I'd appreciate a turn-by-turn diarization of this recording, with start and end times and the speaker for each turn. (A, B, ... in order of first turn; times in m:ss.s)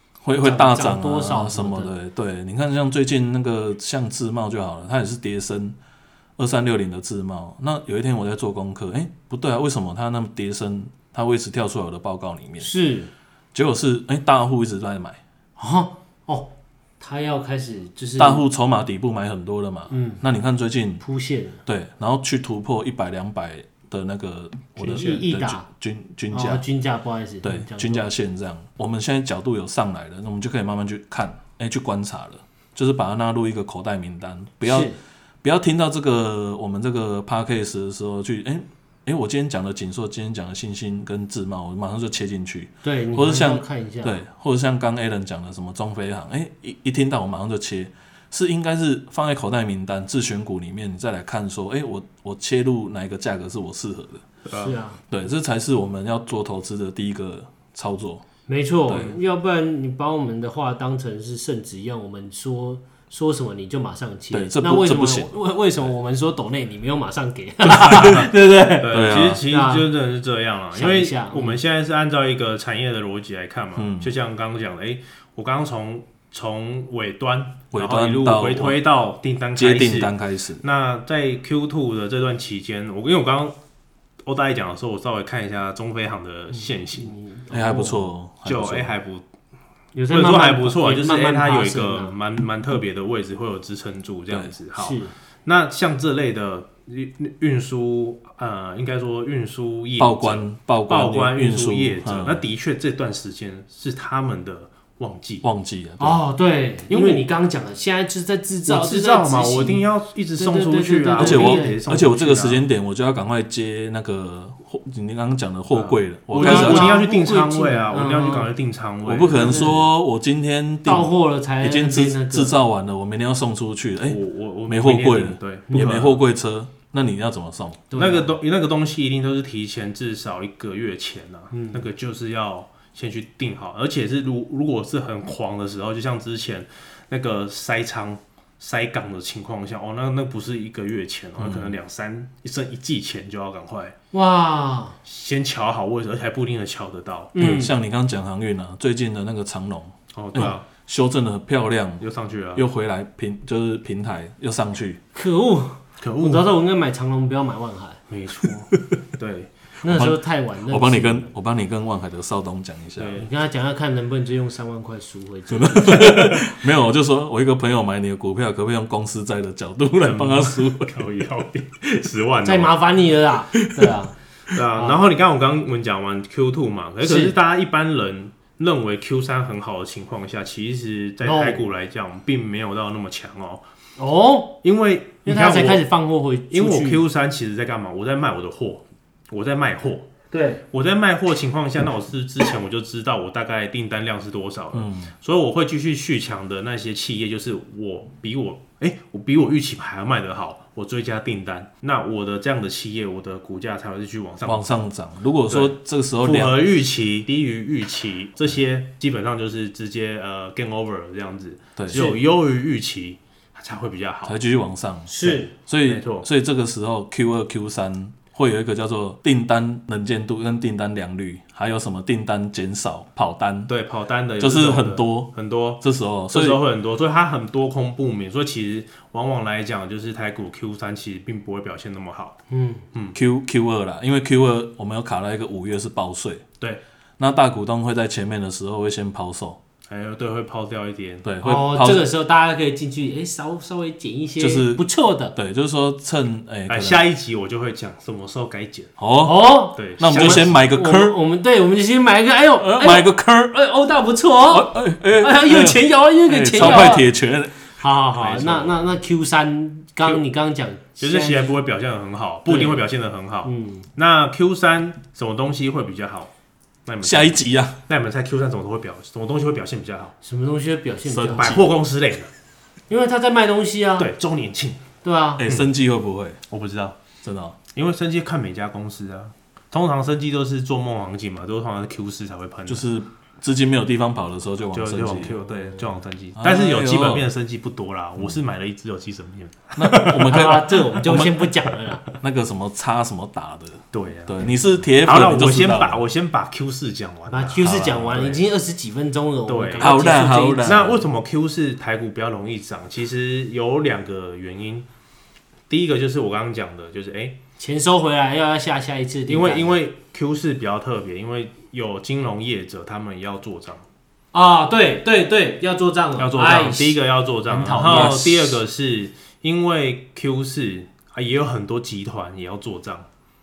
0:00.2-0:05.8 A
0:00.4-0:01.9 B
0:06.4-0:12.7 A
0:12.6-0:13.1 B
0:13.5-0:15.2 A
0:15.6-0:18.4 B
0:18.2-0:21.0 A
0:19.9-0:20.2 B
0:21.0-0:21.6 B
0:21.7-0:26.6 A
0:24.8-0:25.7 B
0:26.3-0:28.0 B
0:27.4-0:34.9 A
0:34.6-0:35.0 B
0:35.4-0:54.2 A
0:42.8-0:44.2 B
0:54.4-0:54.7 C
0:54.5-0:55.0 B
0:55.1-0:58.2 A
0:58.5-1:09.9 B
0:58.9-0:59.2 A
1:04.3-1:05.3 A
1:07.8-1:23.6 C
1:07.8-1:08.3 A
1:08.8-1:09.4 A
1:10.7-1:11.6 B
1:13.8-1:14.1 A
1:17.7-1:18.8 A
1:19.6-1:20.6 A
1:24.2-1:27.1 C
1:26.6-1:28.1 B
1:27.5-1:28.9 A
1:28.4-1:29.2 C
1:29.9-1:32.2 B
1:30.1-1:45.4 C
1:34.8-1:35.1 B
1:40.0-1:42.4 A
1:45.4-1:46.2 A
1:46.0-1:51.8 B
1:46.9-1:47.2 C
1:48.7-1:52.6 C
1:51.2-1:57.0 A
1:55.7-1:59.8 C
1:56.3-1:58.5 B
1:59.0-2:07.8 A
1:59.3-1:59.8 B
2:00.8-2:02.6 B
2:04.1-2:06.2 C
2:05.7-2:06.0 B
2:07.9-2:08.4 B
2:08.0-2:24.0 C
2:11.5-2:11.8 B
2:21.4-2:21.7 A
2:24.1-2:25.0 B
2:25.0-2:27.4 C
2:27.4-2:27.7 B
2:27.4-2:35.0 A
2:30.1-2:30.7 C
2:32.0-2:32.6 C
2:35.2-2:38.0 B
2:36.0-2:36.5 C
2:38.1-2:39.5 C
2:39.8-2:41.3 B
2:39.9-2:43.1 A
2:43.0-2:43.3 C
2:43.2-2:46.5 B
2:45.5-2:51.1 A
2:50.0-2:52.8 C
2:52.4-2:54.2 B
2:53.6-2:53.9 A
2:54.5-3:03.6 C
2:57.0-2:57.4 B
3:01.2-3:01.7 B
3:04.0-3:04.6 B
3:04.6-3:05.8 C
3:05.2-3:07.0 B
3:06.5-3:10.1 C
3:10.3-3:10.6 B
3:10.7-3:24.8 C
3:14.7-3:15.1 A
3:24.5-3:26.6 A
3:25.5-3:34.4 C
3:31.8-3:32.0 A
3:31.9-3:32.2 B
3:34.2-3:43.7 A
3:35.1-3:35.5 B
3:35.2-3:36.3 C
3:43.7-3:52.4 C
3:44.4-3:46.6 A
3:52.5-3:52.8 B
3:53.2-3:56.4 A
3:57.2-3:59.6 A
3:59.9-4:01.2 C
4:01.2-4:02.1 A
4:01.4-4:05.4 B
4:04.4-4:07.0 A
4:06.7-4:08.9 C
4:09.0-4:11.2 A
4:09.2-4:17.1 B
4:09.7-4:10.6 C
4:12.6-4:13.5 A
4:14.5-4:17.7 A
4:16.6-4:16.9 C
4:17.7-4:21.6 B
4:18.2-4:18.8 C
4:21.0-4:26.3 C
4:22.5-4:22.9 B
4:23.4-4:23.9 B
4:26.9-4:30.2 C
4:27.0-4:27.8 A
4:30.2-4:31.6 B
4:31.1-4:31.7 A
4:31.3-4:32.3 C
4:32.9-4:34.1 B
4:34.0-4:34.8 C
4:35.0-4:35.4 B
4:35.4-4:36.4 A
4:36.5-4:37.0 C
4:37.2-4:37.6 A
4:37.7-4:42.8 C
4:42.7-4:45.4 A
4:44.7-4:51.0 C
4:46.4-4:47.3 A
4:49.8-4:51.6 A
4:50.2-4:52.1 B
4:52.1-4:56.0 A
4:53.9-4:58.4 C
4:57.3-5:01.0 B
4:57.6-4:58.4 A
4:59.5-5:04.9 C
4:59.8-5:01.0 A
5:05.7-5:07.4 C
5:07.6-5:09.8 B
5:09.3-5:13.8 C
5:14.3-5:18.6 B
5:16.2-5:23.1 C
5:17.8-5:18.3 A